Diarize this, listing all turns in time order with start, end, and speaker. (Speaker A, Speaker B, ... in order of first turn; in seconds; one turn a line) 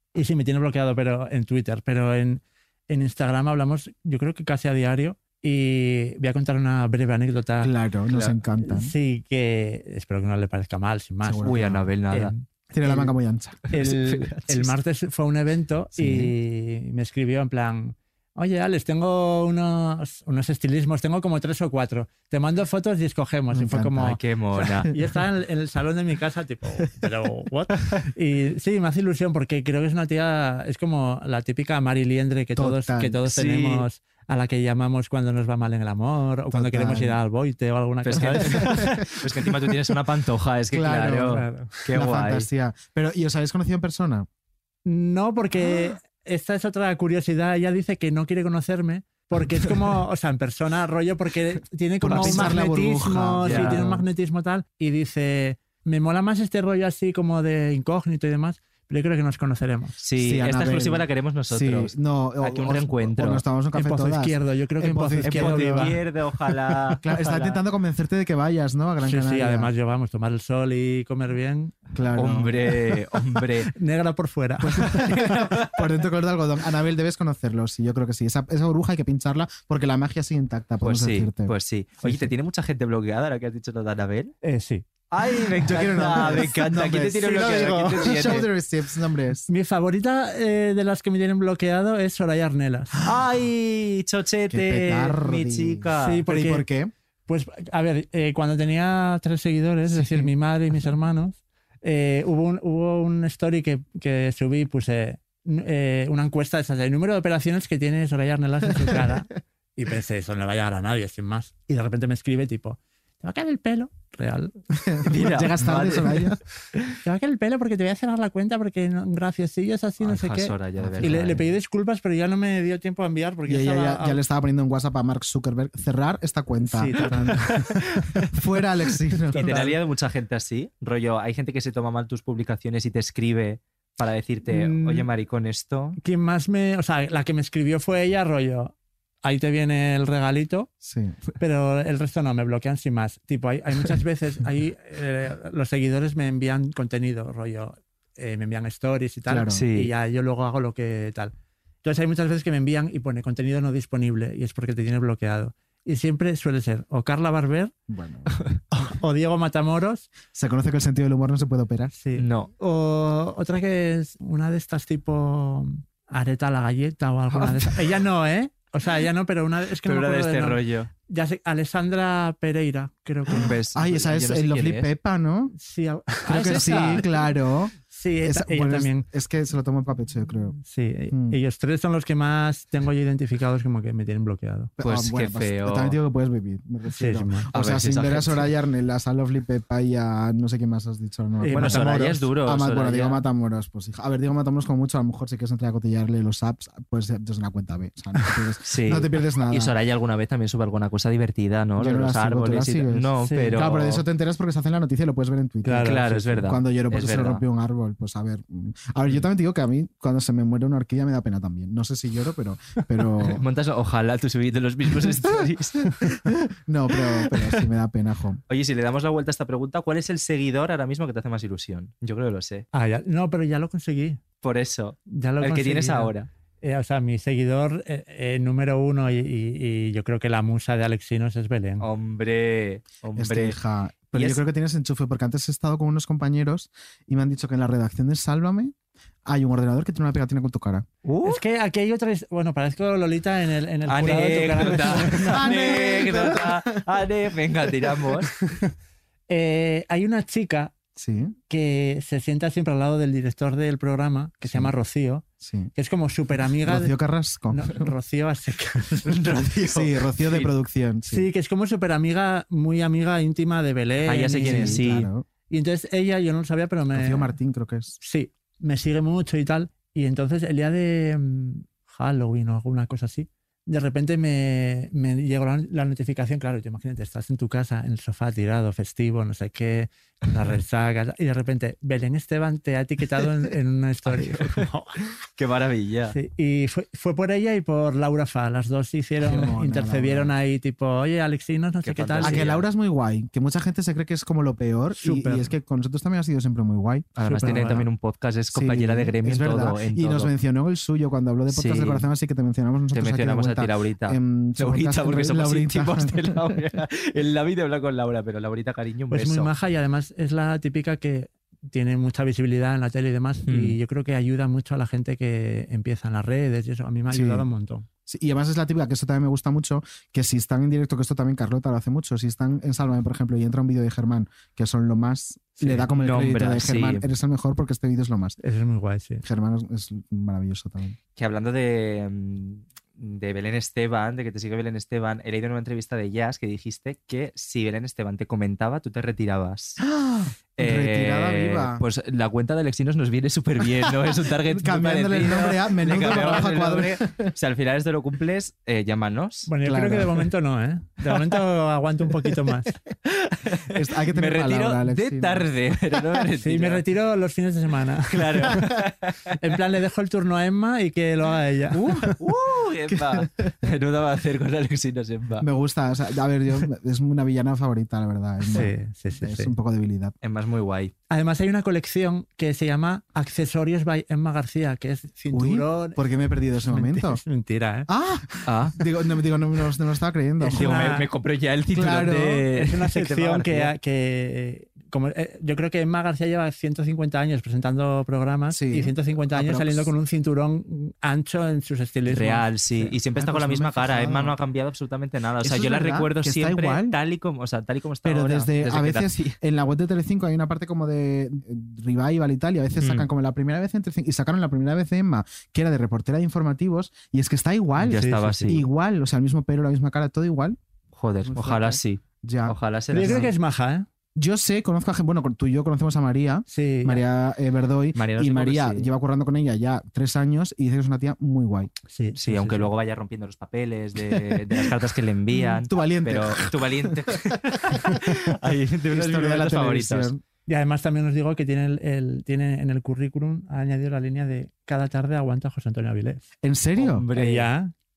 Speaker A: 0.1-7.7
Speaker B: 7.6-8.9
Speaker A: 8.6-12.3
Speaker B: 11.2-11.9
Speaker C: 11.5-12.3
Speaker B: 12.7-13.6
Speaker C: 13.7-14.7
Speaker A: 13.7-24.2
Speaker B: 16.0-16.3
Speaker B: 23.5-24.1
Speaker C: 24.0-24.9
Speaker A: 24.9-39.0
Speaker B: 32.6-33.2
Speaker C: 33.3-33.9
Speaker B: 36.5-37.2
Speaker C: 38.0-42.5
Speaker B: 38.2-39.0
Speaker B: 40.7-44.3
Speaker A: 41.3-41.8
Speaker A: 44.9-60.0
Speaker B: 52.0-54.0
Speaker C: 52.1-52.6
Speaker C: 53.5-53.8
Speaker C: 60.0-63.4
Speaker B: 60.2-66.0
Speaker A: 63.7-66.0
Speaker C: 65.2-67.6
Speaker B: 66.9-69.7
Speaker A: 69.0-71.8
Speaker B: 71.9-72.6
Speaker C: 72.2-73.7
Speaker A: 73.7-75.1
Speaker B: 74.6-81.5
Speaker C: 75.0-75.8
Speaker C: 80.8-84.3
Speaker A: 84.4-84.9
Speaker C: 85.1-88.5
Speaker B: 85.6-89.5
Speaker A: 85.7-86.5
Speaker A: 87.3-88.4
Speaker A: 89.5-93.0
Speaker C: 93.0-96.2
Speaker B: 94.5-96.9
Speaker A: 96.0-96.7
Speaker A: 97.3-114.6
Speaker B: 100.0-100.3
Speaker B: 114.8-116.4
Speaker C: 115.1-116.9
Speaker A: 117.0-124.2
Speaker C: 120.0-121.4
Speaker B: 120.8-121.3
Speaker B: 123.5-127.4
Speaker A: 126.7-127.6
Speaker B: 128.3-129.6
Speaker A: 129.3-129.7
Speaker C: 129.3-136.0
Speaker A: 134.5-135.1
Speaker A: 136.0-140.7
Speaker B: 140.8-141.2
Speaker A: 141.4-157.7
Speaker B: 149.3-149.6
Speaker C: 149.5-149.9
Speaker B: 157.9-158.3
Speaker A: 158.7-160.1
Speaker B: 160.3-161.9
Speaker A: 161.9-173.6
Speaker C: 162.2-162.5
Speaker C: 167.4-167.8
Speaker C: 169.8-170.9
Speaker C: 173.3-174.9
Speaker B: 173.7-175.5
Speaker A: 175.6-177.1
Speaker C: 176.3-177.1
Speaker B: 176.3-177.7
Speaker A: 177.9-179.1
Speaker B: 178.2-180.6
Speaker A: 180.6-184.7
Speaker B: 181.1-181.4
Speaker B: 184.8-199.7
Speaker C: 184.8-186.0
Speaker A: 187.0-187.5
Speaker C: 187.5-188.5
Speaker A: 191.4-192.2
Speaker C: 191.5-193.2
Speaker C: 198.7-204.0
Speaker B: 201.8-213.4
Speaker A: 203.2-203.6
Speaker A: 205.7-206.3
Speaker C: 205.8-207.4
Speaker C: 213.2-215.8
Speaker B: 216.3-218.4
Speaker C: 217.3-217.6
Speaker C: 218.5-222.7
Speaker A: 222.7-224.2
Speaker C: 224.4-226.3
Speaker A: 225.1-231.9
Speaker C: 231.8-233.6
Speaker B: 233.2-238.7
Speaker C: 234.1-234.4
Speaker B: 239.3-240.9
Speaker C: 241.1-241.4
Speaker A: 241.2-245.7
Speaker C: 243.9-248.3
Speaker B: 245.2-246.7
Speaker A: 249.3-250.8
Speaker B: 251.0-251.3
Speaker A: 251.5-256.9
Speaker B: 255.4-255.7
Speaker B: 256.6-257.9
Speaker A: 257.5-259.1
Speaker C: 259.1-260.5
Speaker B: 259.7-261.3
Speaker A: 261.1-264.8
Speaker C: 264.1-265.1
Speaker B: 264.4-265.3
Speaker A: 265.5-267.3
Speaker B: 266.9-268.0
Speaker A: 268.0-284.9
Speaker C: 284.1-284.7
Speaker C: 285.4-286.1
Speaker A: 286.1-292.5
Speaker B: 289.2-290.3
Speaker C: 291.8-292.6
Speaker B: 292.2-297.7
Speaker A: 295.0-295.5
Speaker C: 297.2-300.3
Speaker A: 297.2-297.9
Speaker B: 298.5-306.4
Speaker C: 301.5-302.1
Speaker C: 302.9-309.5
Speaker A: 309.1-317.9
Speaker C: 313.5-313.8
Speaker B: 317.1-317.5
Speaker B: 318.1-328.4
Speaker A: 325.6-325.9
Speaker C: 325.9-327.1
Speaker A: 328.4-329.2
Speaker B: 329.2-331.0
Speaker C: 331.2-339.8
Speaker B: 339.8-341.8
Speaker C: 340.6-349.5
Speaker B: 344.4-347.3
Speaker A: 349.5-352.8
Speaker B: 349.6-350.1
Speaker C: 353.1-356.8
Speaker B: 353.7-355.5
Speaker A: 356.4-358.6
Speaker C: 358.1-359.3
Speaker A: 359.4-361.8
Speaker C: 361.8-365.5
Speaker B: 361.8-362.2
Speaker B: 362.9-363.3
Speaker B: 365.4-370.1
Speaker A: 368.5-369.5
Speaker C: 370.2-370.9
Speaker A: 371.1-376.0
Speaker B: 375.3-377.2
Speaker A: 376.6-377.9
Speaker B: 377.9-380.7
Speaker C: 378.5-378.8
Speaker A: 380.4-381.1
Speaker C: 380.5-383.7
Speaker B: 381.7-382.4
Speaker A: 382.6-392.9
Speaker B: 388.5-389.9
Speaker C: 392.1-399.4
Speaker B: 393.2-394.4
Speaker B: 395.4-396.9
Speaker B: 398.1-410.6
Speaker C: 402.8-403.1
Speaker A: 407.8-408.6
Speaker C: 407.9-408.6
Speaker C: 410.9-413.3
Speaker B: 411.2-413.3
Speaker A: 412.9-413.9
Speaker B: 414.2-421.7
Speaker A: 416.5-417.0
Speaker C: 418.0-418.9
Speaker A: 421.9-422.7
Speaker C: 422.2-430.1
Speaker B: 424.1-424.6
Speaker B: 425.3-427.2
Speaker B: 427.7-428.0
Speaker B: 428.9-430.2
Speaker A: 430.5-436.3
Speaker B: 436.4-437.1
Speaker C: 436.8-437.5
Speaker A: 437.1-437.7